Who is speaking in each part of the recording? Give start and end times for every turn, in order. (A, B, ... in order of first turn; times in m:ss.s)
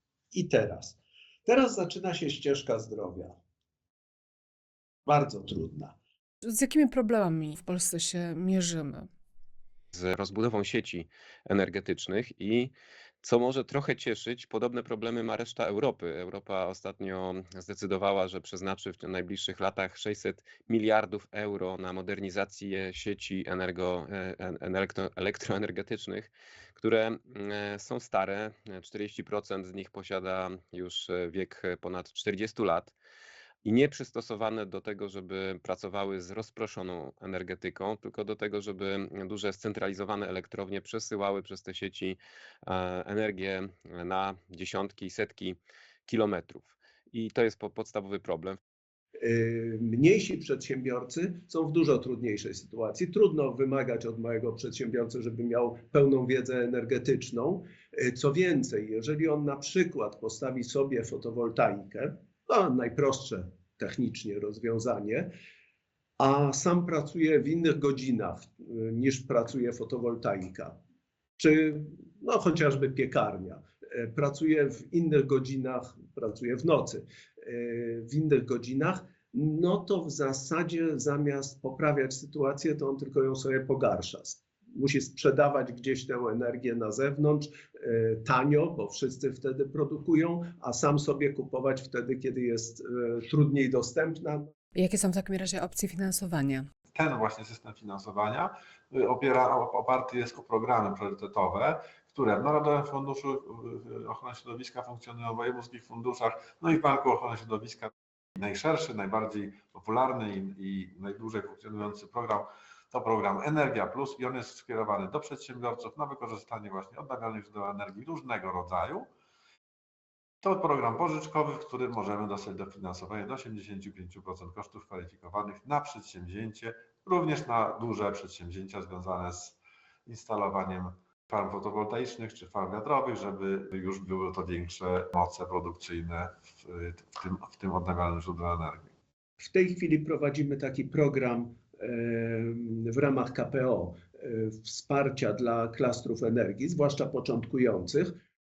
0:00.3-0:03.4 A
0:05.0-0:06.0 A
0:06.4-0:09.1 B
0:09.9-0:32.9 C
0:33.6-0:48.6 C
0:49.2-1:05.3 A
1:06.2-1:10.8 A
1:11.4-1:34.5 A
1:34.7-1:36.7 B
1:36.9-1:59.1 D
2:00.4-2:18.9 D
2:19.4-2:28.2 A